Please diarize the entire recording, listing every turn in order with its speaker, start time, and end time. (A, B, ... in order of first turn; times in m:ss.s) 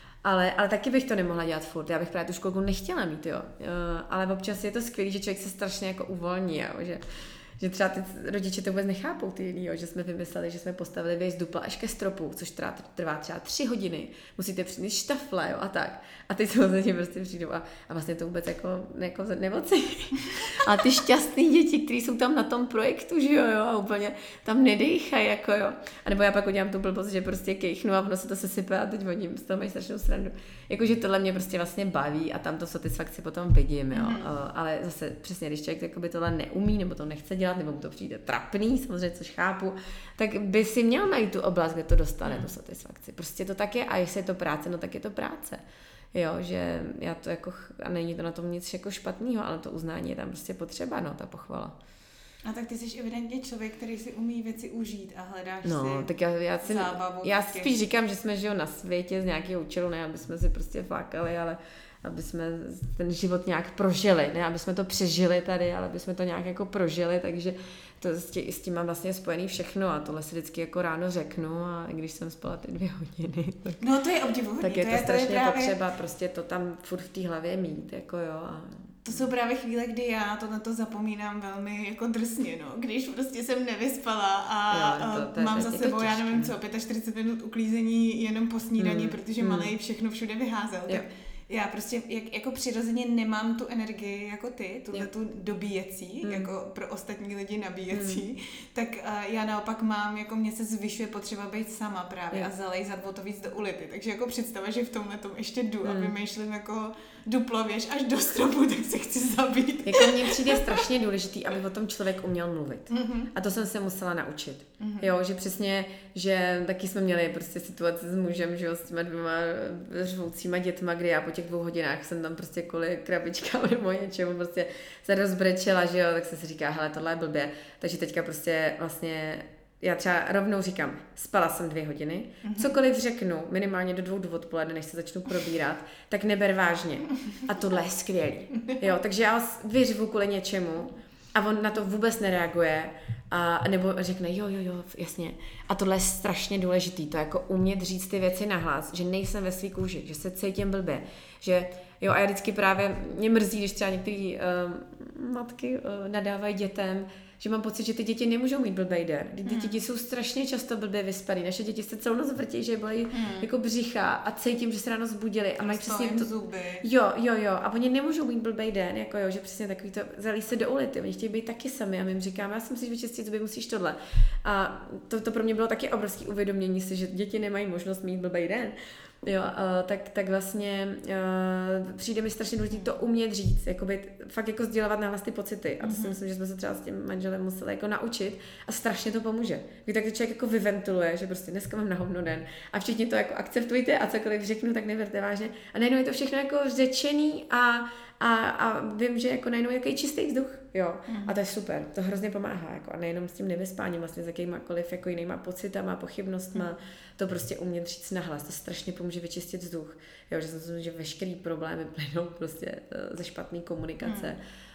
0:00.2-0:07.0 A
0:07.6-0:45.6 A
0:33.9-0:34.3 B
0:46.1-0:51.8 A
0:52.4-0:56.1 B
0:55.6-1:13.8 A
0:56.6-0:57.7 B
1:13.8-1:15.8 B
1:14.6-1:19.2 A
1:19.0-1:50.8 B
1:24.7-1:26.5 A
1:28.8-1:29.7 A
1:36.2-1:36.5 A
1:37.9-1:38.2 A
1:45.8-1:46.1 A
1:49.8-2:46.3 A
1:52.9-1:53.3 B
1:54.8-1:55.1 B
2:12.4-2:12.7 B
2:39.4-2:39.8 B
2:43.1-2:43.5 B
2:45.6-2:46.8 B
2:46.8-3:34.4 A
3:05.8-3:06.2 B
3:21.1-3:21.4 B
3:34.0-3:34.4 B